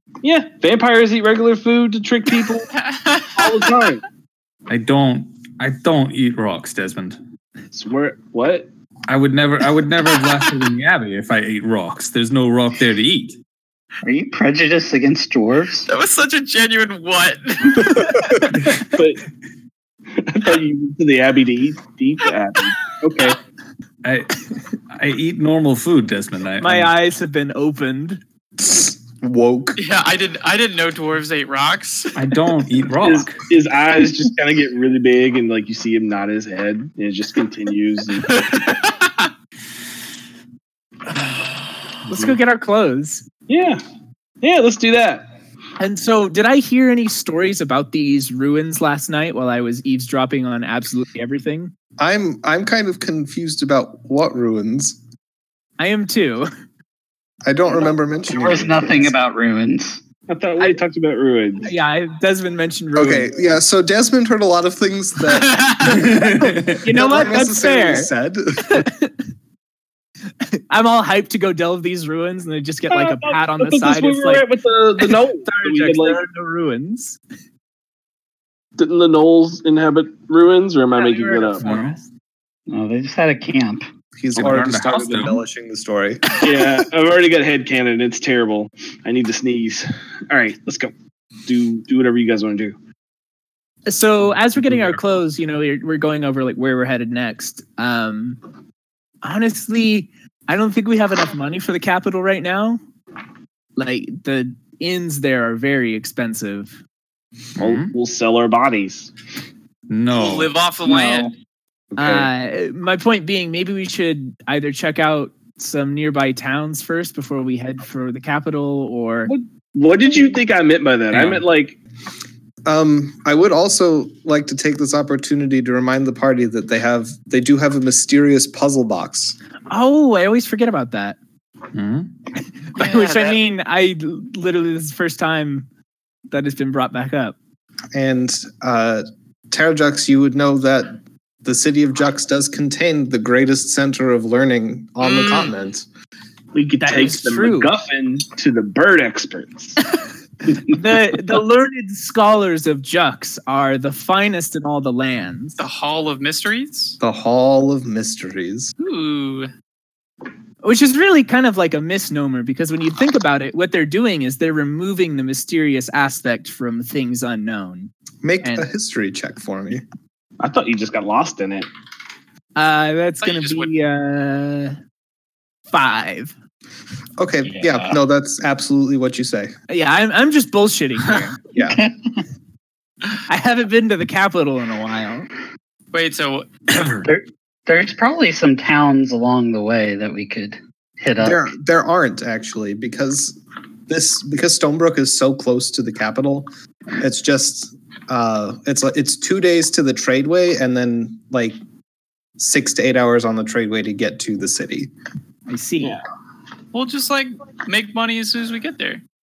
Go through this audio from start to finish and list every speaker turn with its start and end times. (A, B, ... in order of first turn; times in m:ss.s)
0:00.2-0:02.7 A
0:02.7-0:03.6 B
0:03.4-0:04.0 A
0:04.7-0:07.2 C
0:07.7-0:08.7 A
0:09.1-0:13.4 C
0:14.0-0:15.9 D
0:15.9-0:18.1 B
0:18.5-0:18.9 C
0:18.8-0:19.2 A
0:20.1-0:23.4 A
0:24.0-0:26.9 C
0:26.6-0:28.2 E
0:28.6-0:29.8 F
0:29.8-0:32.1 B
0:32.1-0:33.5 C
0:33.0-0:38.4 A
0:38.3-0:39.3 B
0:42.1-0:43.2 E
0:43.5-0:43.8 A
0:44.4-0:45.3 A
0:45.8-0:51.7 E
0:52.0-0:55.0 F
0:55.8-0:56.5 E
0:57.4-0:59.1 F
0:58.3-1:00.0 D
1:00.3-1:01.7 A
1:01.6-1:03.4 E
1:02.9-1:08.9 F
1:05.3-1:06.0 B
1:05.8-1:06.8 C
1:06.8-1:08.1 E
1:08.7-1:09.1 E
1:10.5-1:17.2 E
1:12.9-1:16.2 A
1:18.8-1:21.6 A
1:20.9-1:22.0 E
1:21.6-1:22.0 C
1:22.7-1:23.8 D
1:24.2-1:26.3 F
1:24.4-1:25.4 C
1:26.4-1:30.9 A
1:31.4-1:32.8 A
1:33.9-1:38.4 E
1:39.2-1:42.8 E
1:43.8-1:46.8 E
1:47.6-1:47.9 C
1:47.6-1:49.1 A
1:49.9-1:50.5 C
1:50.1-1:51.3 B
1:52.0-1:59.3 E
1:52.0-1:52.3 A
1:59.3-2:01.8 A
2:01.1-2:01.4 C
2:02.6-2:09.4 F
2:09.7-2:11.2 E
2:11.7-2:12.1 C
2:12.7-2:15.7 E
2:12.8-2:13.4 B
2:16.3-2:17.4 E
2:17.9-2:25.9 F
2:25.0-2:25.5 A
2:26.5-2:29.8 A
2:26.8-2:27.7 E
2:30.5-2:35.6 E
2:35.6-2:37.0 B
2:37.0-2:38.7 F
2:38.8-2:39.5 B
2:40.6-2:47.9 E
2:48.2-2:49.8 F
2:50.4-2:51.7 A
2:52.6-2:54.8 E
2:53.2-2:53.7 B
2:55.7-2:56.3 E
2:57.2-2:59.5 F
2:57.4-2:57.9 D
2:59.7-3:01.4 E
3:01.5-3:01.8 F
3:01.6-3:02.1 D
3:03.3-3:05.3 E
3:05.9-3:06.5 B
3:06.7-3:07.1 C
3:07.0-3:11.5 D
3:11.2-3:21.6 F
3:22.4-3:24.9 F
3:25.5-3:26.0 E
3:26.7-3:29.0 B